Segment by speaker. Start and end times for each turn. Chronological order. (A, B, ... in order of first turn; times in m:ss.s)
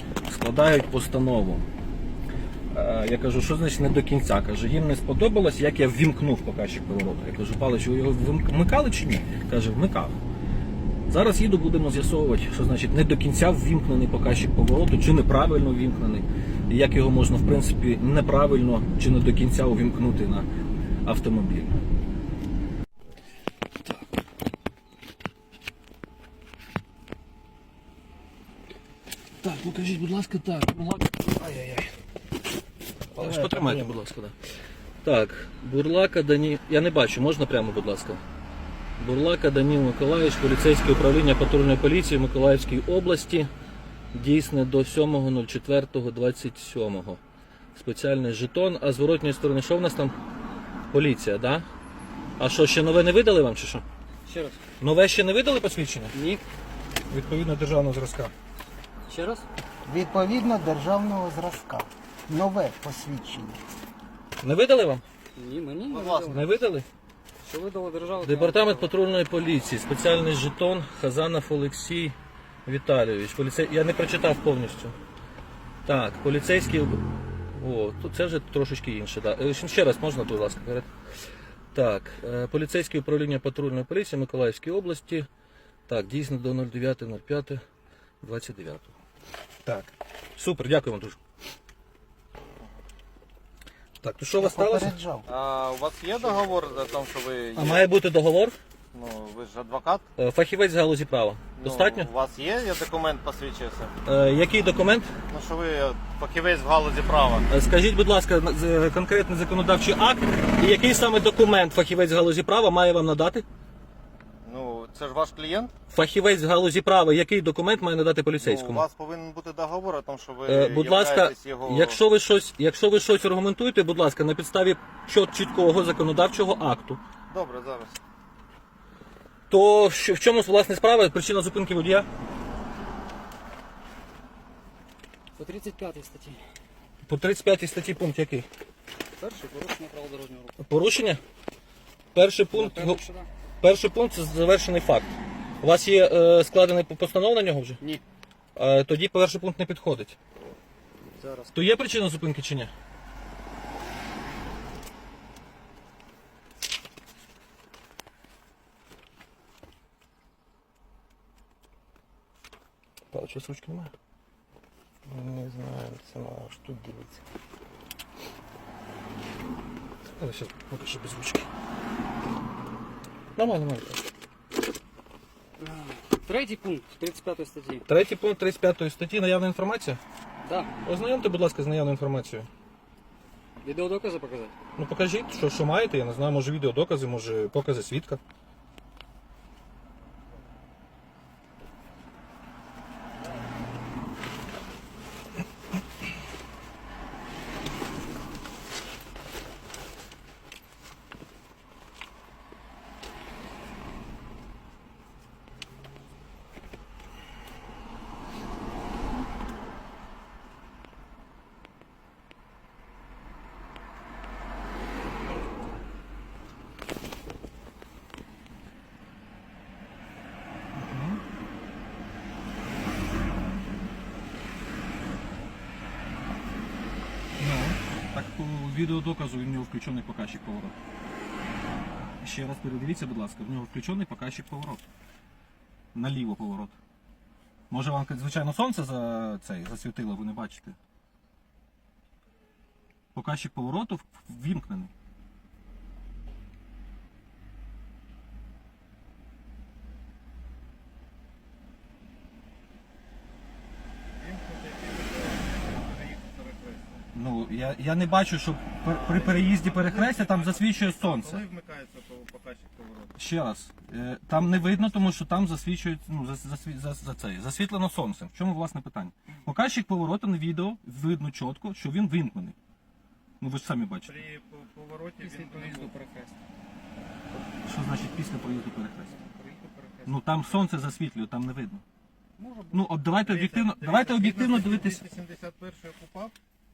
0:00.3-0:01.7 A
0:02.7-0:10.2 A
0:11.1-0:20.5 A
0:21.0-0:21.8 A
0:29.4-0:31.8 A
0:33.1-0:34.3 A
0:35.0-0:38.2 A
0:39.0-0:43.5 A
0:44.1-0:47.2 A
0:47.7-0:50.1 A
0:50.9-0:51.7 A
0:52.4-0:53.8 A
0:54.3-0:54.6 B
0:54.8-0:56.1 A
0:56.1-0:56.4 B
0:57.1-0:58.3 A
0:59.1-0:59.5 B
0:59.9-1:03.6 C
1:04.4-1:05.0 A
1:05.4-1:06.5 B
1:05.9-1:06.5 D
1:06.3-1:06.8 A
1:07.4-1:08.9 B
1:08.2-1:15.0 A
1:15.9-1:20.9 A
1:21.7-1:25.3 A
1:25.9-1:27.6 A
1:28.2-1:28.9 A
1:29.6-1:31.2 A
1:34.0-1:35.0 A
1:34.4-1:35.3 C
1:35.3-1:37.9 D
1:37.6-1:38.6 A
1:38.9-1:40.0 D
1:40.2-1:42.1 A
1:41.6-1:43.9 D
1:44.0-1:45.1 A
1:45.3-1:47.5 D
1:47.5-1:53.4 A
1:54.4-1:55.7 D
1:55.9-1:58.8 A
1:58.4-2:02.0 D
2:00.5-2:07.0 A
2:07.3-2:08.0 D
2:09.5-2:12.1 A
2:15.4-2:16.4 B
2:17.0-2:18.5 A
2:19.2-2:20.6 B
2:20.6-2:21.2 A
2:22.1-2:23.0 A
2:22.5-2:23.3 B
2:23.6-2:27.8 A
2:28.6-2:30.2 A
2:31.1-2:31.5 B
2:31.5-2:32.7 A
2:43.1-2:43.9 A
2:45.1-2:47.1 A
2:50.1-2:51.5 A
2:53.4-2:54.0 A
2:55.6-2:57.8 B
2:57.9-3:00.0 A
3:00.4-3:00.8 B
3:00.8-3:02.5 A
3:03.6-3:04.5 B
3:04.8-3:08.2 A
3:40.8-3:41.2 A
3:47.4-3:50.8 A
3:52.2-3:54.9 A
3:55.9-3:56.8 A
3:57.7-4:00.8 A
4:03.1-4:04.9 A
4:14.1-4:17.0 D
4:17.1-4:21.4 A
4:18.8-4:23.2 D
4:23.2-4:32.6 A
4:33.4-4:34.2 A
4:34.0-4:35.9 D
4:35.2-4:36.4 B
4:37.6-4:39.2 A
4:39.1-4:40.2 B
4:40.0-4:41.8 A
4:42.4-4:42.9 B
4:42.7-4:45.0 A
4:43.2-4:46.4 D